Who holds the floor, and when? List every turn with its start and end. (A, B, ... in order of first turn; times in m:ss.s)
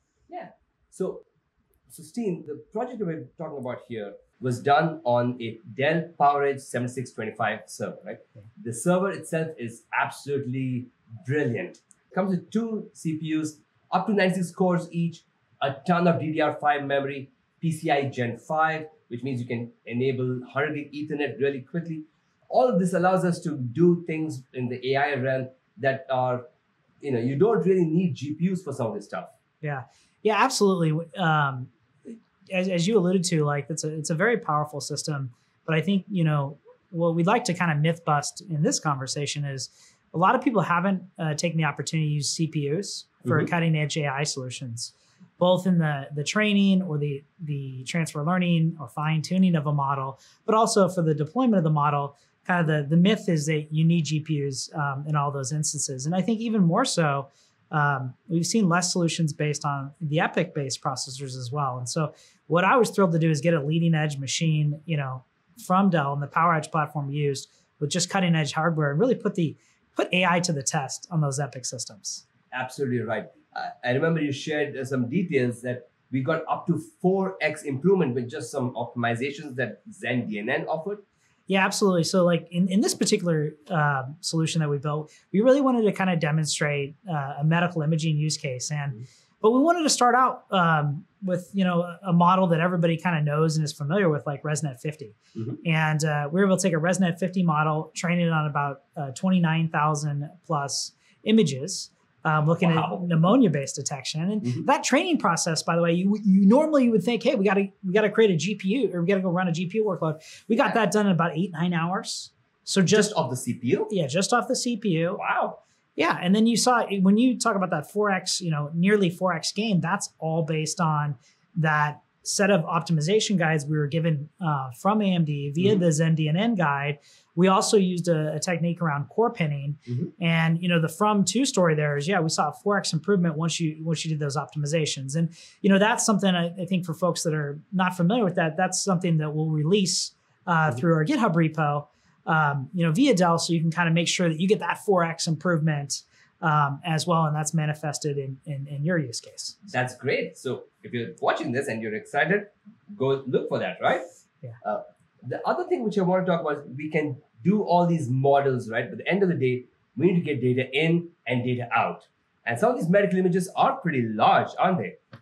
0:00.3-0:01.2 A
0:01.9-0:26.5 A
0:27.0-0:29.3 A
0:29.6-1:12.2 B
0:43.2-0:43.5 A
1:12.5-1:21.0 A
1:21.5-1:53.1 B
1:35.4-1:35.6 A
1:42.6-1:43.3 A
1:52.9-1:53.9 A
1:53.9-1:55.2 B
1:55.2-1:55.6 A
1:56.0-2:29.7 B
2:29.7-2:34.0 A
2:34.6-2:45.0 A